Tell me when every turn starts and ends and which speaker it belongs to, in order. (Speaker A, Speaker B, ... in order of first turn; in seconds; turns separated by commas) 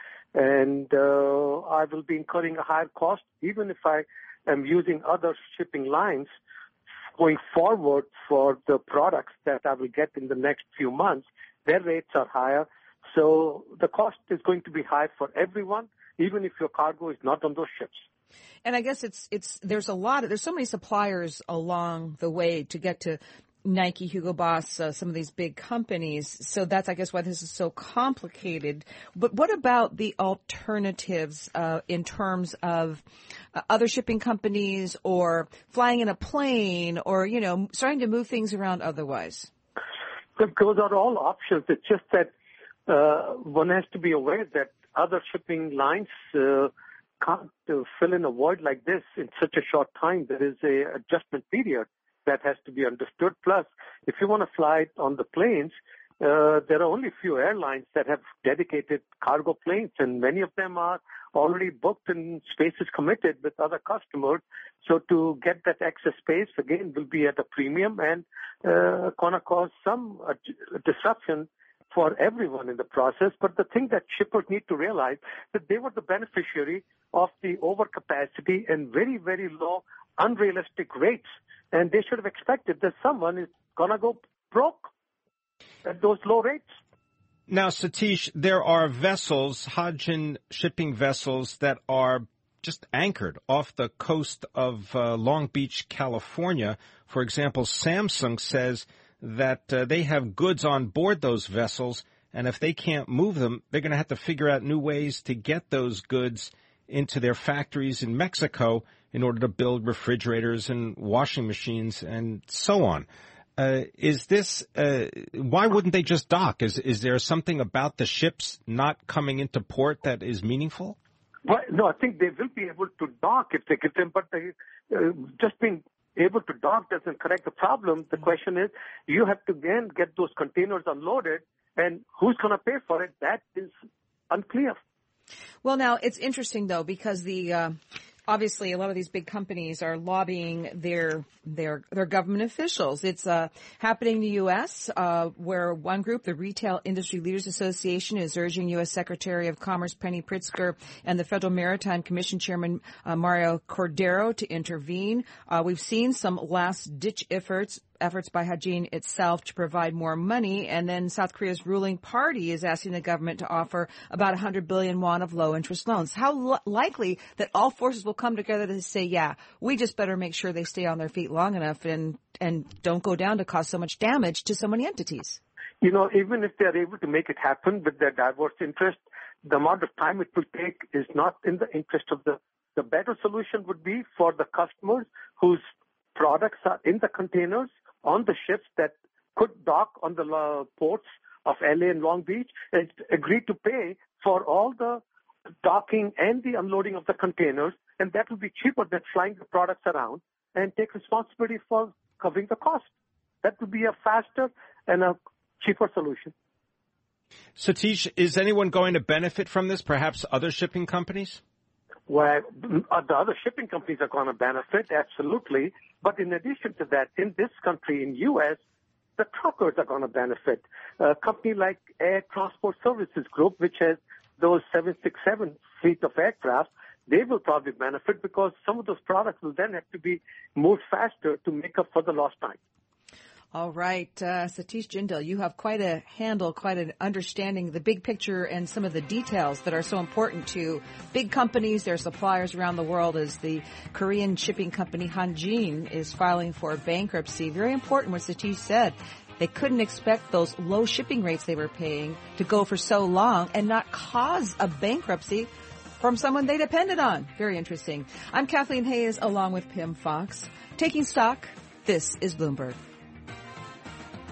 Speaker A: 0.3-6.3, Speaker A: 7.2-18.0, Speaker B: 18.6-33.0, Speaker B: 33.5-39.5, Speaker A: 40.4-42.3, Speaker A: 42.9-46.7, Speaker A: 47.2-84.9, Speaker A: 85.8-86.7, Speaker C: 87.5-113.1, Speaker C: 113.6-121.0, Speaker A: 121.5-133.7, Speaker A: 134.3-134.8, Speaker B: 135.6-175.4, Speaker A: 175.8-185.6, Speaker A: 186.2-195.0, Speaker A: 195.6-202.9, Speaker A: 203.4-206.3, Speaker C: 207.6-211.4, Speaker A: 212.1-218.6, Speaker A: 219.2-232.6, Speaker B: 233.5-262.8